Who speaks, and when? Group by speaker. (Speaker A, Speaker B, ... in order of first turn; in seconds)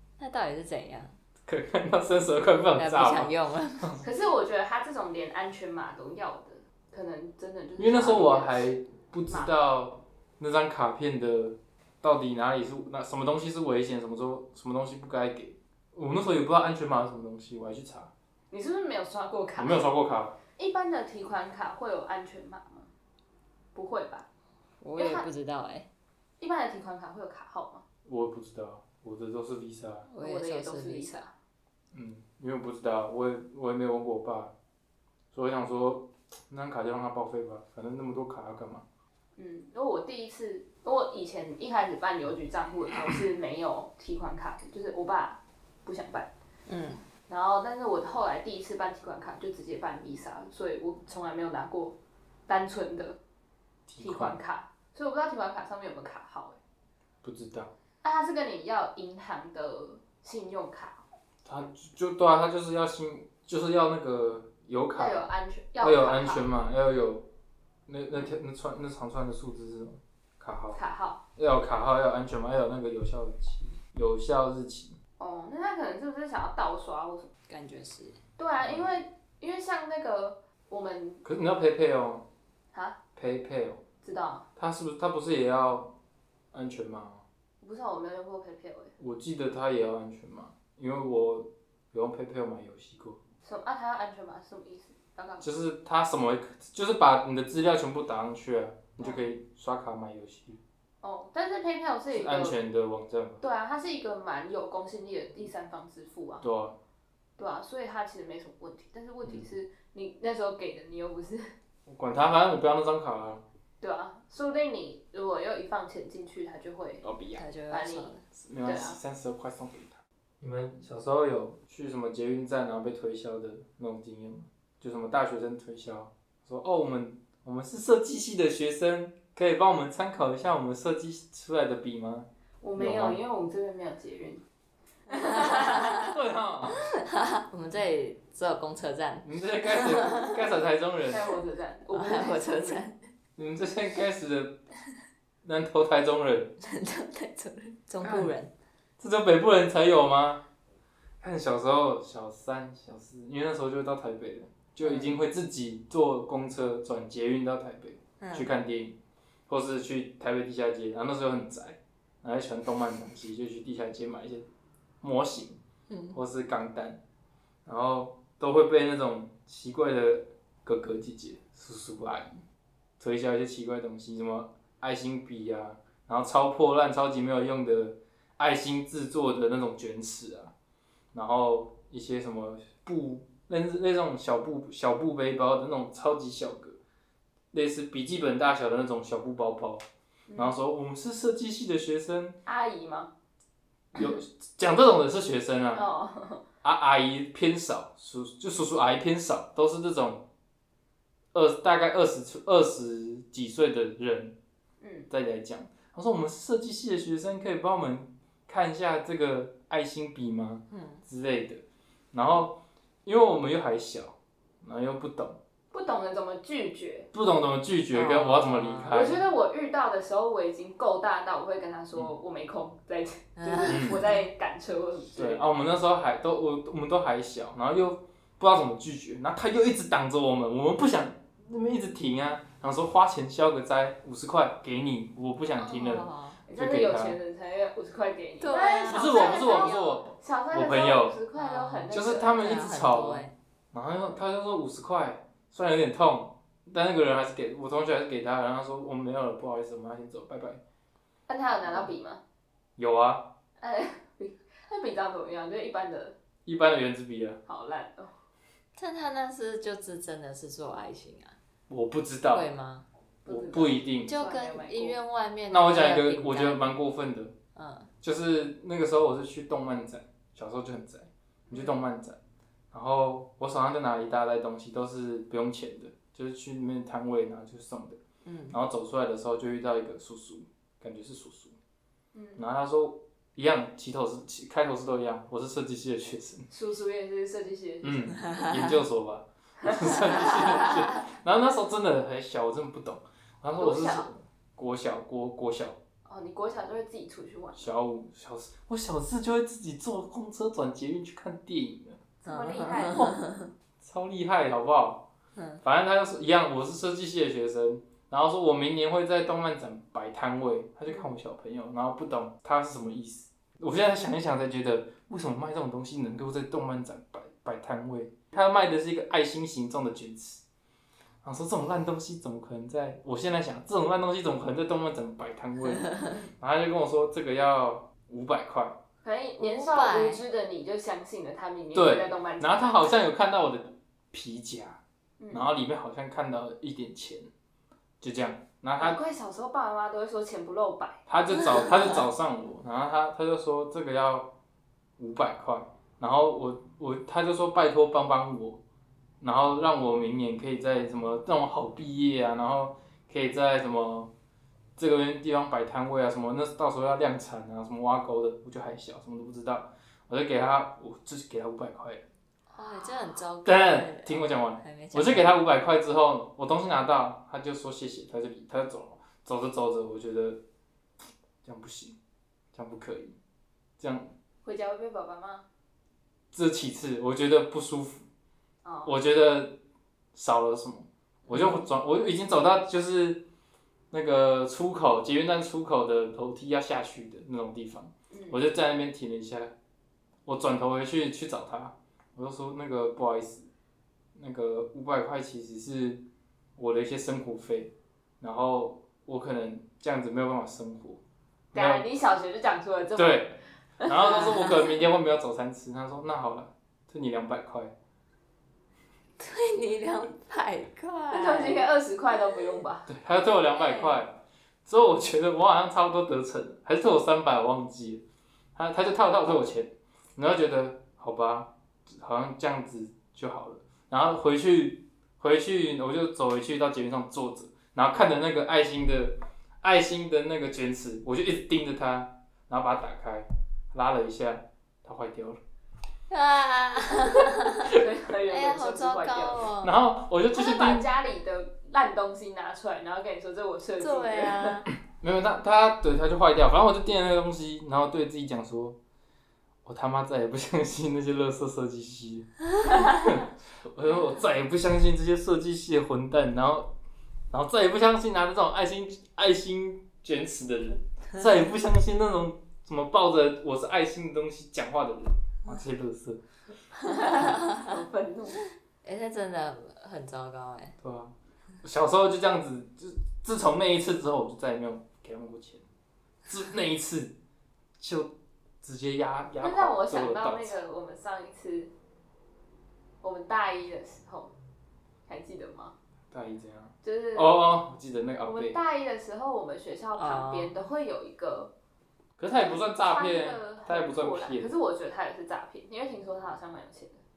Speaker A: 0.2-1.2, 2.8-3.9, 24.8-25.9, 30.1-31.2, 46.7-47.0, 77.5-78.2, 117.3-118.2, 135.1-136.0, 136.9-140.4, 141.9-143.0, 146.6-148.5, 154.8-155.1, 158.2-158.5, 165.9-166.2, 210.7-211.0, 217.9-219.0, 223.4-224.2, 235.6-236.4, 238.4-240.0, 241.3-243.3, 258.8-261.4, 262.3-262.9, 264.1-266.8, 267.6-267.9, 278.2-278.6, 288.3-288.8, 302.2-303.5, 305.4-305.6, 329.4-330.2, 362.5-365.4, 381.3-381.6, 409.2-411.7, 413.5-414.0, 436.1-437.8, 438.3-439.8, 443.8-444.7, 468.8-470.8, 490.0-490.7
Speaker B: 1.5-4.0, 7.8-18.1, 19.6-20.4, 28.1-30.1, 31.9-34.5, 35.3-38.8, 53.9-54.4, 57.2-57.7, 61.5-65.2, 65.8-67.3, 67.9-70.8, 71.4-75.0, 78.6-78.9, 81.2-82.3, 83.2-83.8, 84.6-86.0, 86.5-87.2, 89.0-93.2, 95.4-100.6, 102.1-103.4, 106.4-106.8, 109.2-109.5, 111.9-113.4, 117.0-117.5, 118.3-133.2, 135.7-136.8, 139.2-141.2, 143.4-144.6, 145.4-146.6, 149.0-150.4, 151.2-159.0, 159.5-164.5, 165.0-165.6, 166.1-167.0, 167.7-172.4, 173.0-180.5, 181.1-186.8, 187.5-189.8, 190.4-192.4, 193.9-195.9, 196.6-200.3, 201.3-204.4, 205.1-215.4, 217.1-219.2, 223.7-224.0, 225.2-237.2, 238.9-241.2, 241.9-250.6, 252.8-253.3, 256.5-257.4, 261.7-262.5, 263.3-264.1, 265.5-267.4, 268.0-272.2, 272.7-278.0, 278.5-281.6, 282.4-286.5, 287.8-295.8, 297.6-302.0, 303.8-305.1, 305.6-320.4, 321.2-328.8, 331.7-337.3, 338.0-339.0, 341.1-344.3, 345.0-348.6, 349.2-354.1, 354.8-362.1, 363.4-370.4, 371.4-372.0, 372.5-373.2, 373.8-374.1, 376.3-378.1, 378.9-379.6, 380.1-383.2, 383.9-389.6, 390.3-393.5, 394.1-396.1, 396.6-401.0, 401.5-401.9, 402.9-407.7, 412.9-418.0, 418.6-435.4, 439.6-440.9, 445.0-448.8, 449.6-456.7, 457.3-466.2, 470.8-475.6, 476.3-477.2, 477.8-480.6, 486.1-488.6, 492.2-494.5
Speaker C: 4.0-8.7, 18.5-19.9, 20.5-22.9, 23.7-24.3, 25.0-25.3, 26.4-27.8, 30.2-31.3, 39.4-46.3, 47.3-53.2, 54.0-56.6, 58.0-61.0, 65.0-66.5, 70.8-71.2, 75.2-77.4, 78.4-81.2, 82.7-83.0, 84.0-84.5, 87.6-89.0, 93.4-95.5, 101.0-102.6, 103.4-106.5, 107.4-111.5, 113.8-117.0, 117.7-119.0, 132.6-134.4, 135.1-135.9, 141.1-142.8, 190.3-190.6, 192.5-193.1, 195.7-196.4, 204.8-205.1, 215.7-217.1, 218.9-225.5, 236.5-242.4, 251.3-252.2, 253.6-256.2, 257.5-258.1, 263.3-265.0, 282.1-282.4, 286.5-288.2, 289.6-290.5, 293.6-294.1, 296.1-297.7, 302.2-303.2, 329.0-333.0, 335.2-335.5, 338.8-341.1, 374.4-375.5, 378.6-379.0, 388.1-388.4, 401.5-403.3, 411.1-412.9, 437.7-439.5, 440.3-444.6, 466.9-468.5, 479.4-481.7, 483.0-484.3, 485.1-485.8, 486.8-487.4, 488.3-491.5, 492.3-497.0